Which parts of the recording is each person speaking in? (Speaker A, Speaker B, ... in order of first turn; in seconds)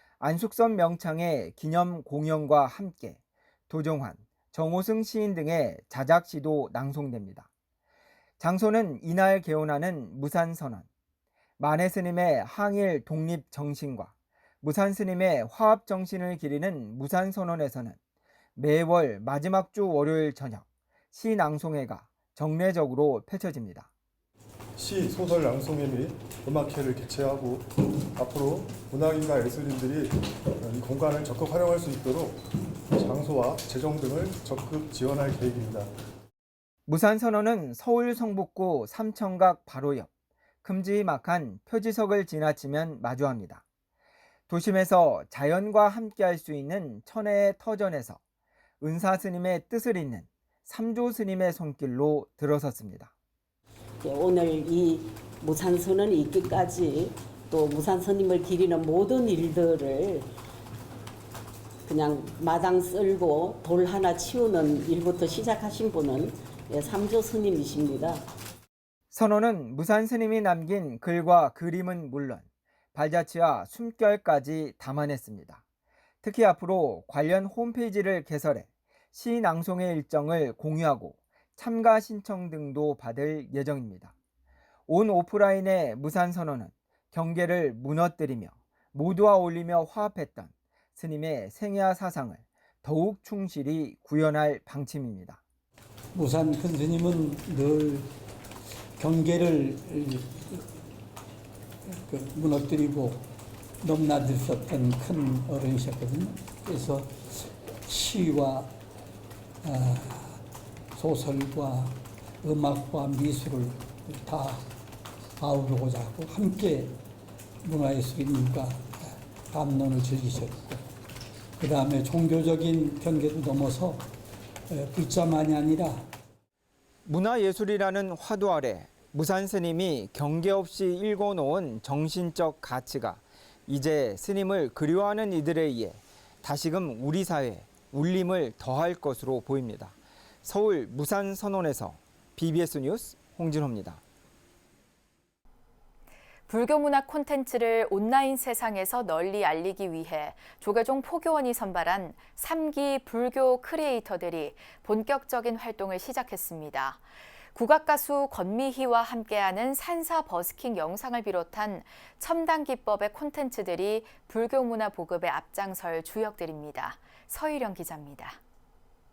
Speaker A: 0.2-7.5, 8.4-10.8, 11.6-18.0, 18.6-23.9, 36.9-40.1, 40.6-43.6, 44.5-48.2, 48.8-53.1, 69.1-75.6, 76.2-84.1, 84.9-95.4, 127.0-144.0
Speaker B: 24.8-35.9
Speaker C: 54.0-60.3, 61.9-68.2
Speaker D: 96.1-98.1, 99.0-100.7, 101.9-103.2, 103.8-108.7, 109.6-110.4, 110.9-114.6, 115.4-117.0, 117.6-120.9, 121.6-124.1, 124.7-126.1
Speaker E: 146.5-157.0, 157.5-168.4